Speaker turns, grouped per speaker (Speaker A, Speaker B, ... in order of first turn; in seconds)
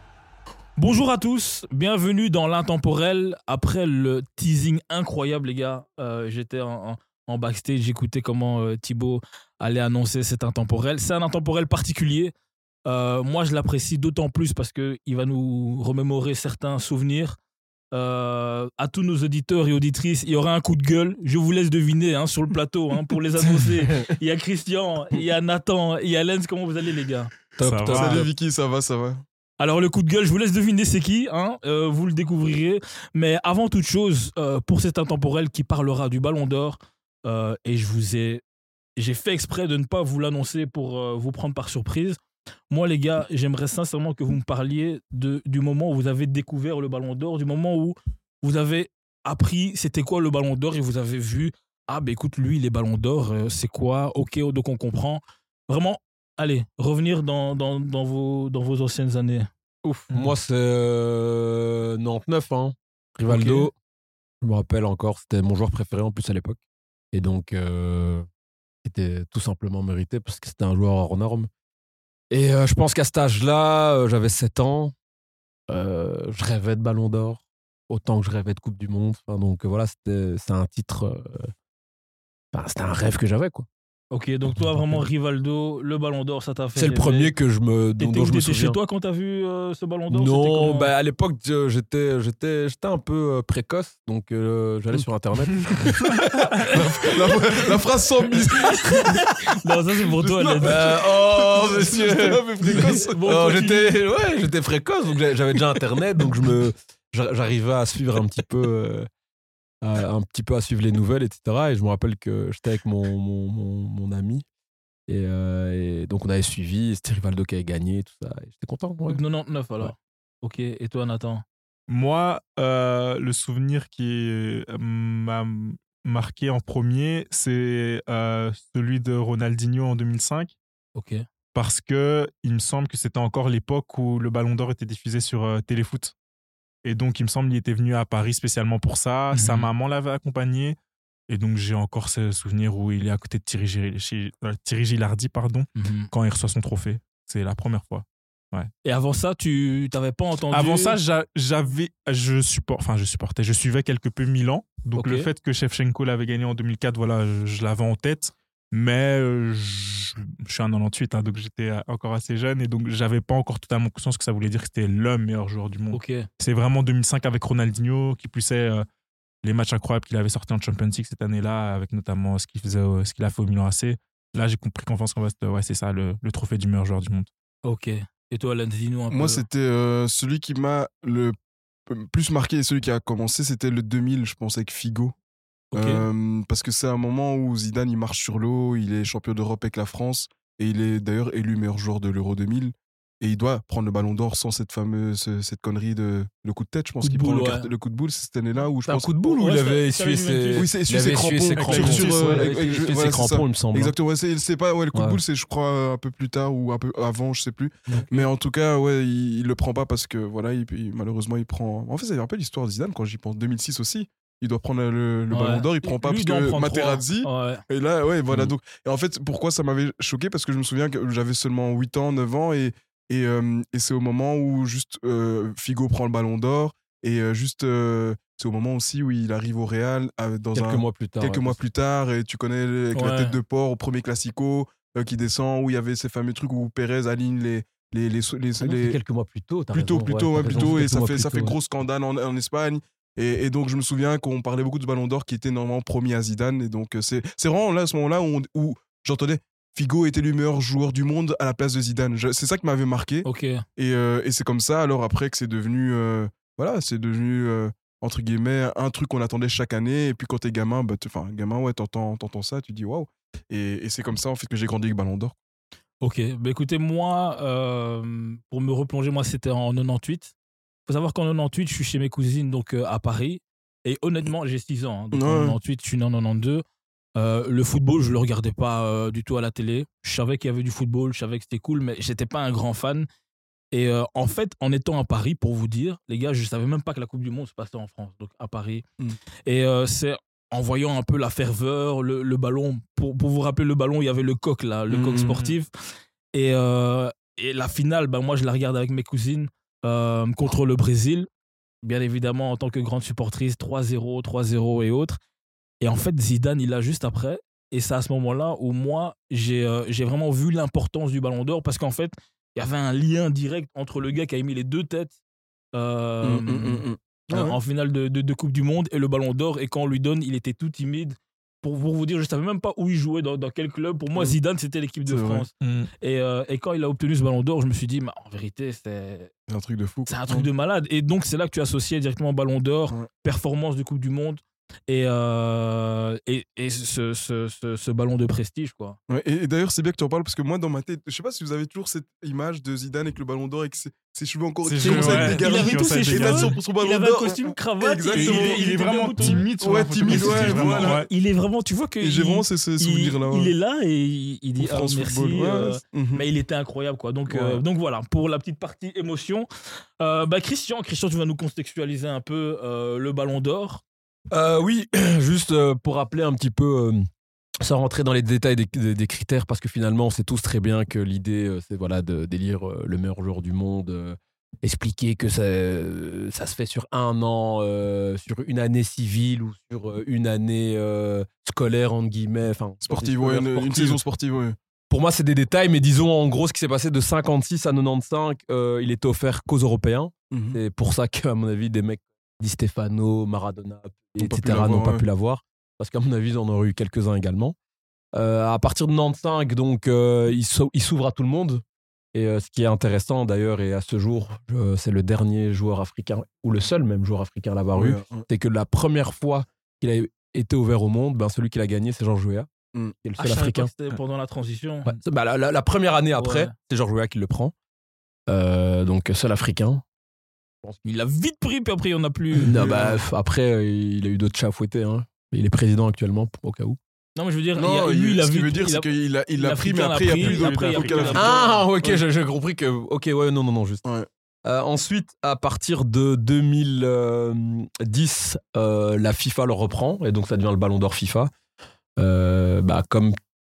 Speaker A: 0.8-12.3, 12.8-17.4, 17.9-27.3, 29.6-38.4, 39.0-59.5, 63.2-63.7, 84.1-87.3, 88.0-90.9, 98.8-100.9, 102.6-104.0, 119.1-121.4, 130.9-131.2, 139.3-139.7, 145.8-146.1, 148.8-150.9, 154.9-155.3, 165.9-166.2, 177.6-179.4, 185.7-186.0, 197.0-197.7, 199.2-200.7, 215.3-217.6, 232.9-233.3, 253.2-253.6, 266.0-270.3, 270.9-276.6, 277.1-283.1, 283.7-288.8, 289.4-295.7, 296.3-301.3, 301.8-305.2, 305.8-315.1, 315.7-329.3, 330.1-339.0, 344.8-349.5, 350.0-359.5, 360.0-363.8, 413.2-414.9, 416.2-416.5, 420.8-422.6, 427.1-431.3
Speaker B: 27.6-28.3, 59.8-63.7, 64.4-66.6, 67.1-68.2, 68.8-71.5, 72.3-74.9, 75.7-81.5, 82.5-83.7, 86.7-88.8, 90.1-97.6, 98.3-99.3, 100.6-109.1, 109.8-114.4, 115.1-119.2, 198.8-203.9, 204.9-205.2, 230.5-231.6, 238.6-241.6, 357.3-357.6, 364.3-367.0, 367.6-384.0, 384.9-397.5, 398.1-401.6, 402.1-412.5, 413.0-413.7, 414.8-417.5, 418.3-419.8, 422.4-426.8, 431.1-433.8, 434.4-441.3, 442.0-443.1
Speaker C: 27.6-28.2, 121.9-130.5, 131.5-136.1, 136.8-140.8, 141.3-148.7, 150.5-168.8, 169.4-177.3, 201.6-202.5, 325.6-325.9, 344.6-346.6, 348.1-351.1, 430.1-431.3
Speaker D: 27.9-29.2, 96.6-99.3, 100.2-103.5, 179.1-181.3, 181.9-185.1, 185.7-199.1, 200.6-239.0, 239.7-265.4, 275.1-275.6, 294.9-295.5, 316.2-317.6, 325.1-325.5, 329.5-330.5, 339.1-348.7, 349.2-351.0, 352.0-353.5, 354.6-356.3, 382.9-384.6, 390.3-390.6, 394.2-395.0, 407.7-408.3, 422.5-423.0, 427.6-432.0